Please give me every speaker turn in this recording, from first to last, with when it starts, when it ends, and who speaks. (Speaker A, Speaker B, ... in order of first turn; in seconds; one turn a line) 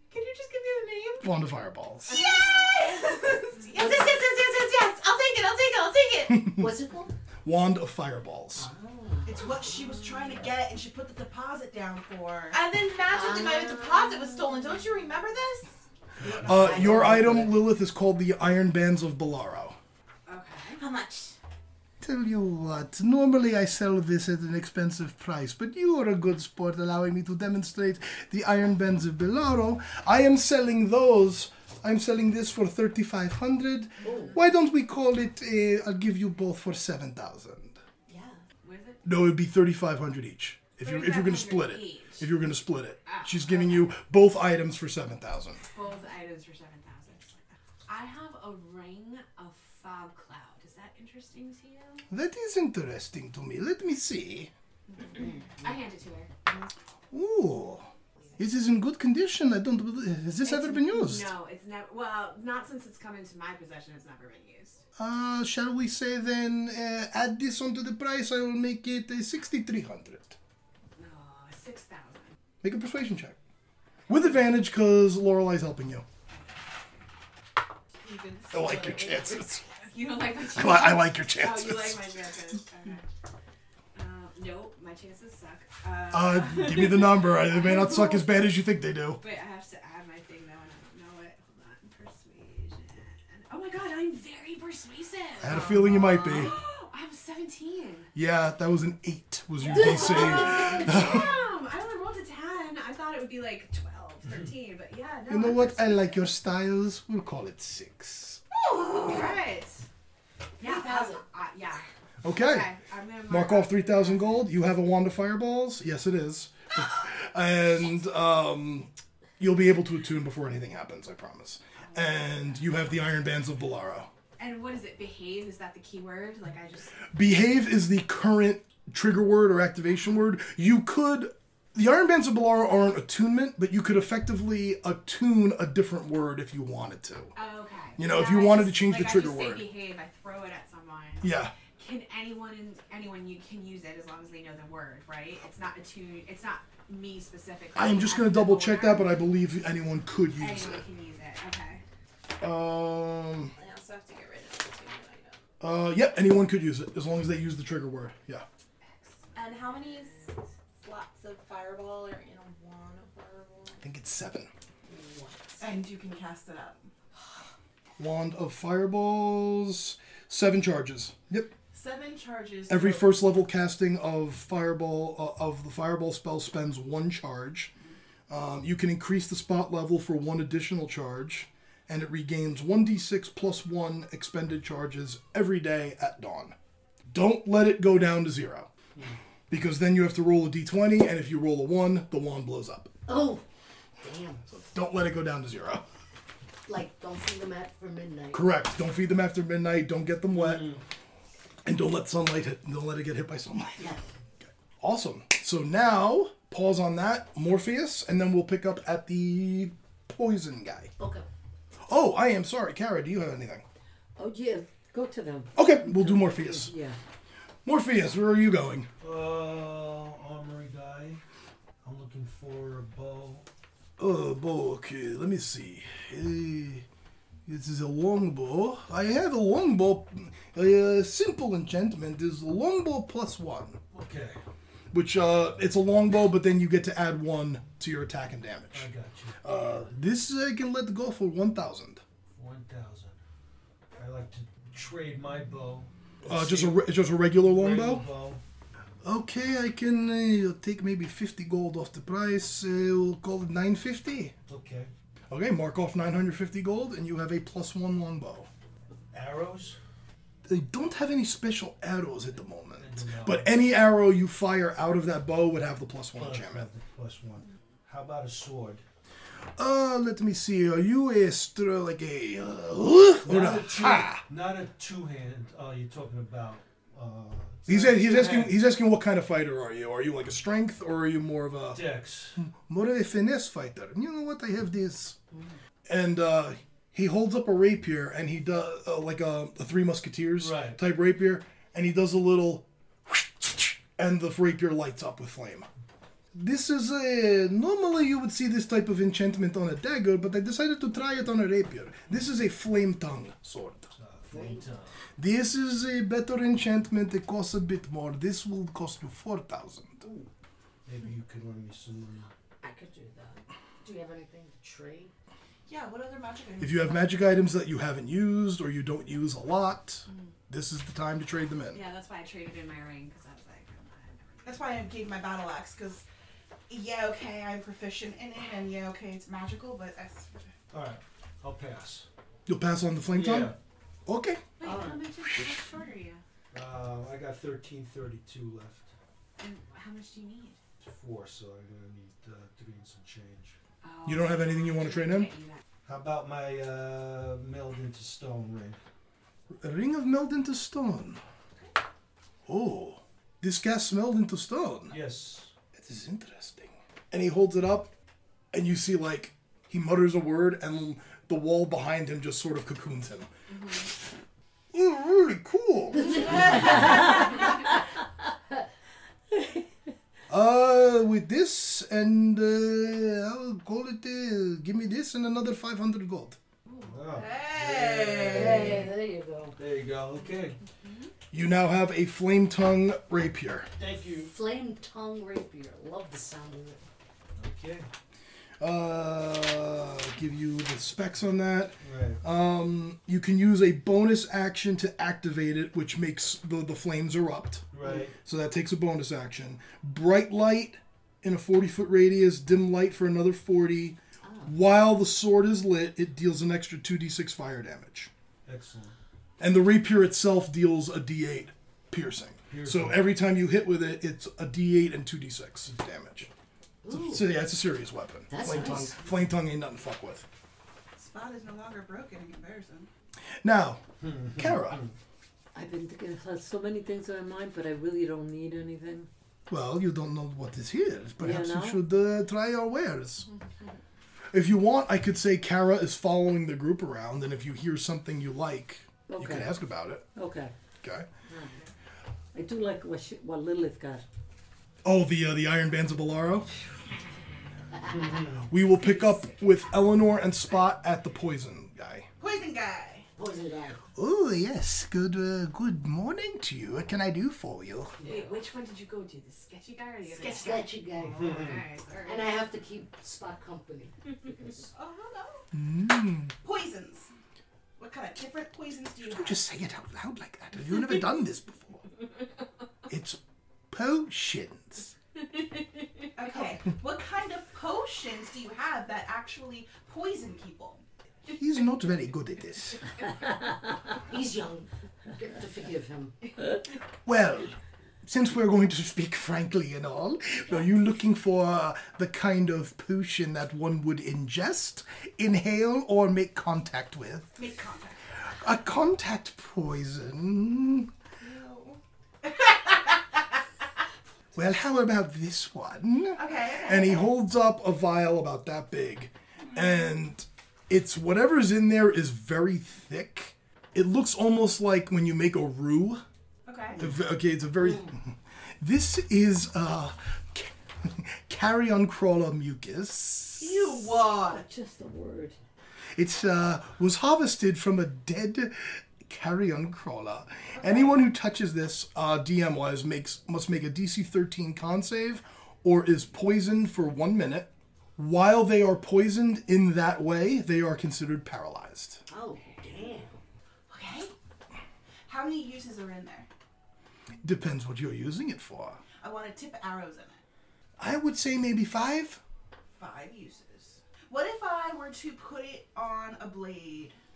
Speaker A: 0.1-1.2
Speaker B: 1.2-2.1
Speaker C: 2.1-3.7
Speaker A: 2.1-6.5
Speaker D: 2.2-2.6
Speaker B: 6.3-6.7
Speaker E: 6.5-7.1
Speaker B: 7.4-8.7
Speaker E: 8.6-9.3
Speaker D: 9.2-12.6
Speaker A: 12.5-15.8
Speaker E: 13.1-13.7
Speaker F: 16.2-16.8
Speaker B: 16.4-19.8
Speaker A: 16.5-17.5
Speaker E: 16.8-17.4
Speaker C: 20.2-20.8
Speaker A: 20.7-21.4
Speaker B: 22.0-37.8
Speaker A: 38.1-38.4
Speaker C: 38.6-39.0
Speaker B: 39.0-45.6
Speaker C: 40.8-42.3
Speaker C: 43.0-43.9
Speaker C: 45.7-52.0
Speaker B: 52.1-54.5
Speaker C: 54.9-56.3
Speaker B: 57.1-61.3
Speaker C: 60.4-64.8
Speaker B: 65.0-70.4
Speaker C: 71.0-72.3
Speaker B: 72.6-73.4
Speaker B: 74.1-76.0
Speaker C: 76.3-77.0
Speaker D: 78.0-79.1
Speaker B: 78.5-79.6
Speaker C: 79.8-83.0
Speaker B: 80.4-82.1
Speaker C: 83.9-88.5
Speaker B: 86.1-89.2
Speaker C: 89.2-98.1
Speaker B: 95.4-96.5
Speaker B: 98.1-101.3
Speaker C: 99.6-106.2
Speaker B: 105.3-108.4
Speaker A: 108.9-109.4
Speaker C: 109.0-109.8
Speaker C: 110.6-114.5
Speaker A: 110.6-111.2
Speaker B: 112.2-112.7
Speaker B: 113.3-124.1
Speaker C: 121.9-122.6
Speaker C: 124.4-127.1
Speaker B: 127.1-137.3
Speaker C: 137.3-149.2
Speaker B: 138.0-139.7
Speaker B: 141.2-141.5
Speaker B: 147.7-150.8
Speaker C: 150.4-151.8
Speaker B: 152.4-153.5
Speaker A: 153.5-155.4
Speaker B: 155.6-158.4
Speaker A: 159.3-163.8
Speaker B: 163.8-164.5
Speaker A: 164.9-165.8
Speaker D: 165.6-166.9
Speaker B: 168.0-171.5
Speaker D: 171.7-173.3
Speaker B: 172.7-177.7
Speaker B: 178.3-186.5
Speaker B: 187.1-188.7
Speaker B: 189.5-192.9
Speaker E: 193.1-193.4
Speaker E: 194.0-194.5
Speaker B: 194.5-195.8
Speaker E: 196.7-198.5
Speaker B: 198.3-200.8
Speaker F: 200.3-200.8
Speaker B: 201.6-210.9
Speaker E: 203.8-204.0
Speaker E: 211.0-211.3
Speaker B: 211.9-213.6
Speaker G: 214.2-216.9
Speaker B: 215.6-216.7
Speaker B: 217.6-218.9
Speaker F: 219.0-221.2
Speaker F: 221.8-223.5
Speaker B: 224.0-226.8
Speaker B: 227.4-233.8
Speaker F: 233.9-234.4
Speaker B: 234.9-238.9
Speaker F: 238.7-239.8
Speaker B: 239.4-242.0
Speaker F: 242.3-243.2
Speaker F: 243.9-248.4
Speaker B: 246.2-248.1
Speaker B: 249.0-254.3
Speaker F: 254.5-254.9
Speaker B: 255.3-258.5
Speaker F: 259.1-259.8
Speaker B: 260.4-266.7
Speaker F: 262.8-263.5
Speaker F: 266.1-268.8
Speaker B: 269.6-274.2
Speaker F: 273.2-278.6
Speaker B: 277.7-285.2
Speaker F: 281.7-282.4
Speaker B: 285.9-295.7
Speaker F: 290.4-290.8
Speaker B: 296.3-303.9
Speaker F: 303.9-304.9
Speaker E: 304.3-304.6
Speaker B: 305.2-310.0
Speaker E: 310.0-310.3
Speaker F: 310.9-312.3
Speaker E: 312.6-315.1
Speaker D: 315.7-317.1
Speaker B: 316.6-321.8
Speaker C: 321.7-324.8
Speaker D: 324.4-326.0
Speaker D: 326.7-330.5
Speaker F: 330.7-332.1
Speaker B: 332.5-334.4
Speaker F: 333.1-333.6
Speaker C: 334.6-336.2
Speaker F: 334.6-335.0
Speaker B: 335.3-335.6
Speaker F: 336.5-338.9
Speaker C: 339.4-340.6
Speaker F: 340.8-343.6
Speaker C: 343.8-345.6
Speaker B: 344.0-345.3
Speaker F: 345.9-348.8
Speaker B: 349.5-351.2
Speaker B: 352.5-355.0
Speaker F: 354.9-355.5
Speaker B: 355.7-357.9
Speaker B: 358.5-363.3
Speaker B: 364.7-367.0
Speaker E: 366.1-367.1
Speaker B: 370.3-376.4
Speaker C: 376.6-377.2
Speaker F: 376.8-378.9
Speaker D: 377.1-378.9
Speaker E: 378.3-379.6
Speaker F: 379.6-380.6
Speaker C: 380.8-381.1
Speaker B: 381.3-383.7
Speaker F: 383.8-384.3
Speaker E: 384.1-386.8
Speaker F: 387.4-387.9
Speaker B: 388.6-408.1
Speaker F: 391.8-392.2
Speaker F: 397.7-398.2
Speaker F: 408.4-408.9
Speaker B: 409.4-416.3
Speaker F: 412.5-413.1
Speaker E: 416.8-417.2
Speaker B: 416.9-420.2
Speaker E: 418.3-418.9
Speaker D: 420.9-422.9
Speaker B: 423.4-423.8
Speaker F: 424.0-424.9
Speaker B: 424.3-424.8
Speaker G: 425.5-429.1
Speaker B: 429.5-433.3
Speaker G: 431.2-431.8
Speaker B: 434.3-440.1
Speaker G: 439.1-439.5
Speaker G: 440.1-440.5
Speaker B: 440.8-441.1
Speaker E: 441.3-441.6
Speaker G: 442.3-444.0
Speaker B: 444.8-446.5
Speaker E: 447.8-448.2
Speaker F: 447.9-448.5
Speaker B: 448.4-452.1
Speaker D: 452.2-453.1
Speaker E: 453.2-453.8
Speaker B: 453.9-458.0
Speaker E: 458.0-458.3
Speaker C: 458.0-462.4
Speaker D: 460.1-460.7
Speaker E: 460.3-464.7
Speaker F: 461.0-461.6
Speaker D: 464.7-465.5
Speaker B: 465.5-466.3
Speaker D: 466.4-467.1
Speaker D: 467.8-469.4
Speaker B: 469.0-471.8
Speaker B: 472.9-473.2
Speaker B: 473.7-474.9
Speaker D: 476.1-480.8
Speaker B: 481.3-482.9
Speaker E: 484.1-486.1
Speaker B: 487.0-497.4
Speaker D: 497.4-498.1
Speaker B: 498.2-500.9
Speaker D: 501.2-502.9
Speaker B: 504.3-516.0
Speaker D: 506.1-507.1
Speaker D: 516.5-516.8
Speaker B: 516.8-523.6
Speaker D: 523.4-524.4
Speaker G: 524.2-525.4
Speaker B: 526.0-542.0
Speaker D: 530.6-531.0
Speaker E: 542.1-543.2
Speaker D: 543.7-544.1
Speaker D: 545.1-546.3
Speaker B: 547.2-548.8
Speaker D: 549.0-550.2
Speaker B: 550.8-552.2
Speaker D: 552.7-557.0